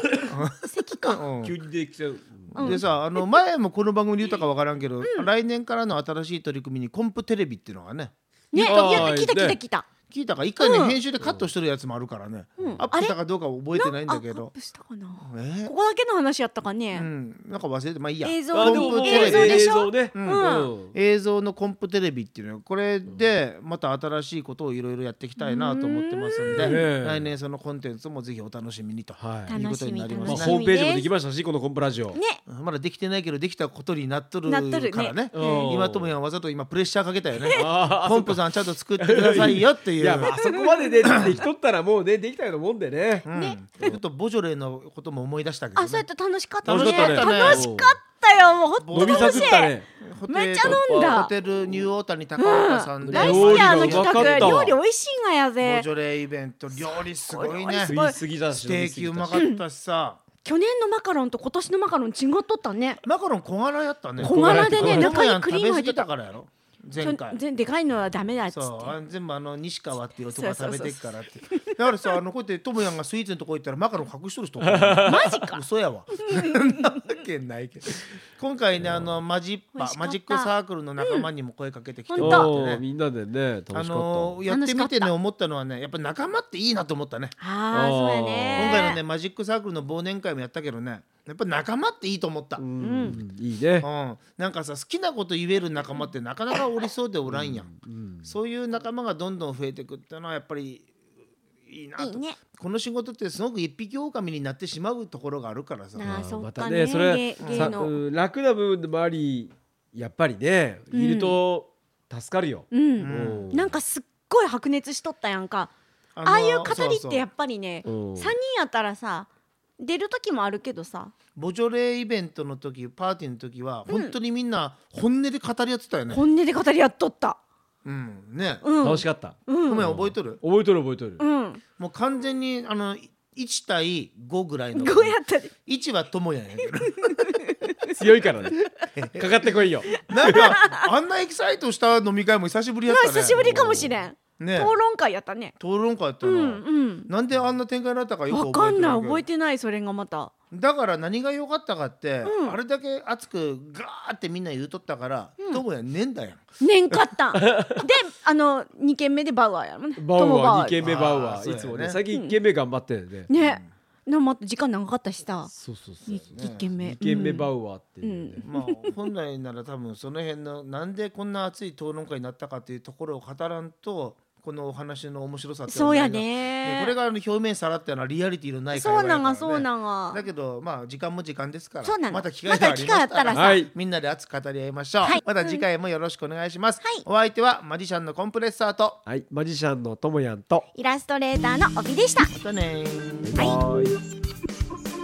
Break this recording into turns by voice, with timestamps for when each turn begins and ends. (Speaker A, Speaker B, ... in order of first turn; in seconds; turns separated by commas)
Speaker A: 0.2-1.5, Speaker B: 0.6-1.2, Speaker C: 1.4-2.8, Speaker A: 2.5-9.2, Speaker B: 2.6-3.3, Speaker B: 5.0-5.3, Speaker B: 8.5-9.9, Speaker C: 8.6-9.6, Speaker A: 10.1-14.5, Speaker B: 10.6-11.0, Speaker C: 11.2-11.5, Speaker C: 12.6-12.9, Speaker B: 12.8-13.2, Speaker B: 13.7-17.1, Speaker A: 15.2-15.7, Speaker A: 16.9-30.6, Speaker B: 18.2-20.7, Speaker C: 18.5-20.9, Speaker B: 25.4-26.8, Speaker C: 26.5-27.3, Speaker C: 29.2-29.5, Speaker B: 29.5-31.1, Speaker C: 30.2-32.2, Speaker B: 32.1-32.4, Speaker A: 32.5-40.4, Speaker B: 34.5-35.8, Speaker C: 35.3-36.1, Speaker C: 37.5-38.4, Speaker C: 39.0-43.3, Speaker B: 40.2-41.2, Speaker A: 41.0-41.4, Speaker A: 43.3-46.1, Speaker B: 43.3-43.9, Speaker B: 45.8-49.8, Speaker A: 46.6-47.7, Speaker C: 46.6-47.9, Speaker A: 48.8-54.8, Speaker C: 48.9-49.9, Speaker B: 50.3-51.3, Speaker C: 50.6-51.1, Speaker B: 52.4-55.9, Speaker C: 53.0-54.8, Speaker A: 55.6-58.0, Speaker B: 56.7-58.2, Speaker C: 57.8-59.4, Speaker A: 58.5-60.2, Speaker B: 59.3-59.6, Speaker B: 60.5-63.0, Speaker A: 63.0-67.4, Speaker C: 64.2-65.2, Speaker B: 64.2-66.1, Speaker B: 67.0-69.0, Speaker A: 68.5-82.8, Speaker B: 70.3-72.1, Speaker C: 74.6-75.3, Speaker B: 75.1-75.6, Speaker B: 76.2-77.0, Speaker C: 78.8-79.2, Speaker B: 79.8-81.3, Speaker B: 82.1-82.5, Speaker C: 82.2-84.4, Speaker A: 83.7-87.3, Speaker B: 84.5-85.1, Speaker B: 87.4-89.0, Speaker C: 87.7-88.8, Speaker A: 88.5-92.6, Speaker C: 92.6-93.9, Speaker B: 92.8-93.2, Speaker A: 93.8-97.7, Speaker C: 97.3-98.3, Speaker A: 98.2-100.9, Speaker A: 101.7-106.1, Speaker B: 102.0-102.4, Speaker B: 106.0-108.0, Speaker C: 106.0-113.8, Speaker A: 107.4-107.9, Speaker B: 110.9-111.4, Speaker B: 112.7-115.7, Speaker A: 113.0-113.5, Speaker A: 116.2-117.3, Speaker B: 116.2-119.3, Speaker C: 117.8-118.4, Speaker B: 119.8-121.1, Speaker A: 121.4-126.2, Speaker B: 123.9-124.1, Speaker B: 126.1-127.4, Speaker A: 127.8-128.7, Speaker B: 128.6-129.8, Speaker C: 128.8-131.2, Speaker A: 129.7-130.4, Speaker B: 131.2-131.6, Speaker A: 131.8-137.4, Speaker B: 134.8-135.5, Speaker B: 136.9-138.0, Speaker C: 137.9-140.4, Speaker A: 139.0-144.8, Speaker B: 139.9-140.9, Speaker B: 142.9-145.6, Speaker C: 143.3-144.0, Speaker A: 145.6-149.2, Speaker B: 146.2-147.1, Speaker B: 148.3-150.3, Speaker A: 150.5-157.0, Speaker B: 152.2-152.6, Speaker B: 156.6-160.8, Speaker C: 157.3-157.8, Speaker C: 160.0-163.3, Speaker A: 160.8-162.0, Speaker B: 163.3-165.5, Speaker A: 163.3-163.7, Speaker C: 165.5-168.4, Speaker B: 166.1-167.5, Speaker A: 166.1-166.7, Speaker B: 168.0-169.0, Speaker A: 168.4-189.0, Speaker B: 175.7-176.9, Speaker B: 178.7-180.2, Speaker B: 181.8-183.6, Speaker C: 183.3-183.7, Speaker B: 185.0-185.6, Speaker C: 189.1-190.7, Speaker B: 190.8-192.3, Speaker A: 192.3-193.5, Speaker C: 193.2-194.0